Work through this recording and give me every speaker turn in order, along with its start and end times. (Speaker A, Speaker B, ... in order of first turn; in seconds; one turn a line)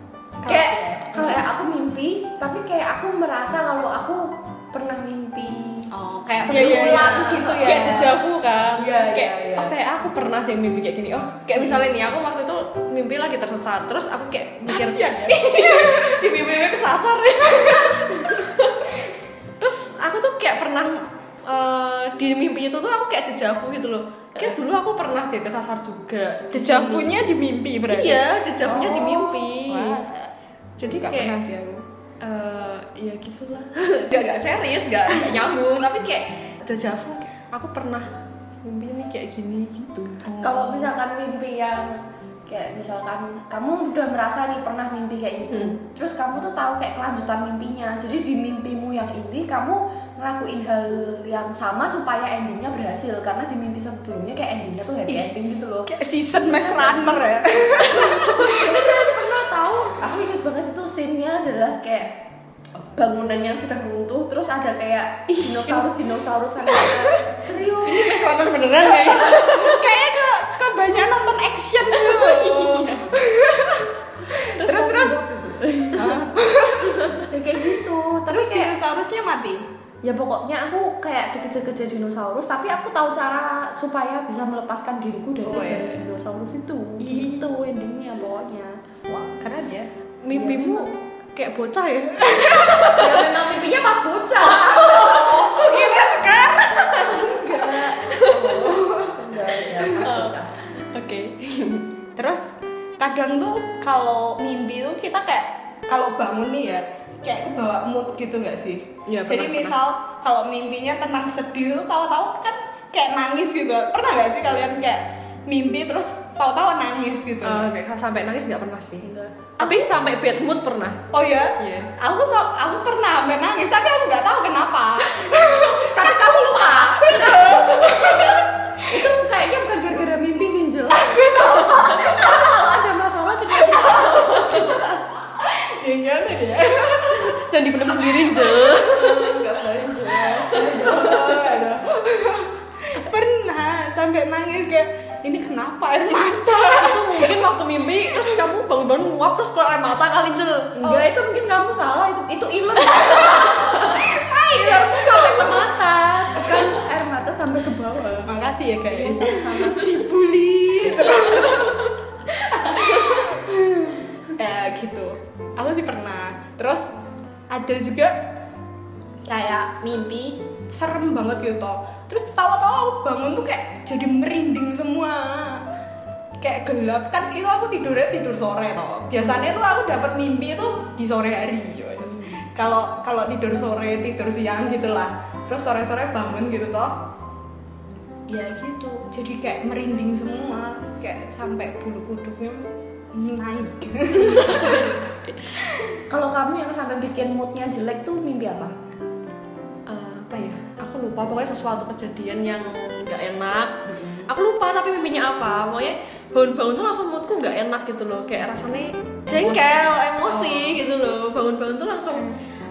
Speaker A: 0.4-1.4
Speaker B: 0.5-8.0
Speaker C: 5.9-8.2
Speaker A: 6.4-18.9
Speaker B: 8.7-9.7
Speaker C: 14.7-16.8
Speaker C: 17.6-18.0
Speaker A: 19.6-27.1
Speaker C: 26.5-30.3
Speaker A: 27.8-30.0
Speaker B: 28.7-29.3
Speaker A: 30.8-31.4
Speaker C: 30.8-31.8
Speaker A: 32.2-38.1
Speaker A: 38.6-40.4
Speaker C: 40.2-40.8
Speaker B: 40.4-62.2
Speaker A: 45.5-45.8
Speaker C: 55.1-55.3
Speaker C: 55.9-59.4
Speaker B: 62.8-68.2
Speaker C: 65.3-65.9
Speaker C: 66.7-67.2
Speaker A: 67.8-69.9
Speaker C: 68.8-75.3
Speaker A: 71.9-73.1
Speaker A: 74.6-75.0
Speaker B: 74.6-76.2
Speaker C: 75.9-77.1
Speaker A: 76.8-77.3
Speaker B: 77.3-78.8
Speaker C: 78.3-79.7
Speaker B: 80.0-88.8
Speaker C: 85.4-86.0
Speaker C: 87.0-87.4
Speaker C: 89.1-89.9
Speaker A: 90.2-93.3
Speaker B: 90.3-90.9
Speaker C: 92.5-92.8
Speaker B: 92.9-95.3
Speaker C: 94.5-97.4
Speaker A: 94.7-96.1
Speaker B: 97.0-100.5
Speaker A: 98.0-98.5
Speaker C: 98.4-99.3
Speaker A: 100.0-101.8
Speaker C: 102.2-117.7
Speaker A: 109.1-109.8
Speaker A: 117.4-121.0
Speaker B: 119.0-119.4
Speaker C: 119.6-119.9
Speaker C: 121.1-129.0
Speaker A: 121.6-121.9
Speaker B: 125.9-135.0
Speaker C: 130.9-132.6
Speaker C: 133.6-134.8
Speaker C: 135.4-147.5
Speaker A: 137.1-139.2
Speaker B: 138.8-141.7
Speaker A: 146.7-151.1
Speaker C: 148.1-148.4
Speaker B: 150.8-160.0
Speaker C: 153.8-155.7
Speaker C: 156.3-156.8
Speaker C: 158.2-167.0
Speaker A: 162.7-163.2
Speaker C: 167.5-168.3
Speaker C: 169.2-175.6
Speaker C: 176.4-187.0
Speaker B: 188.4-188.9
Speaker C: 189.0-195.0
Speaker A: 194.1-195.6
Speaker C: 195.6-195.9
Speaker B: 196.1-198.7
Speaker A: 199.9-212.3
Speaker C: 209.3-210.8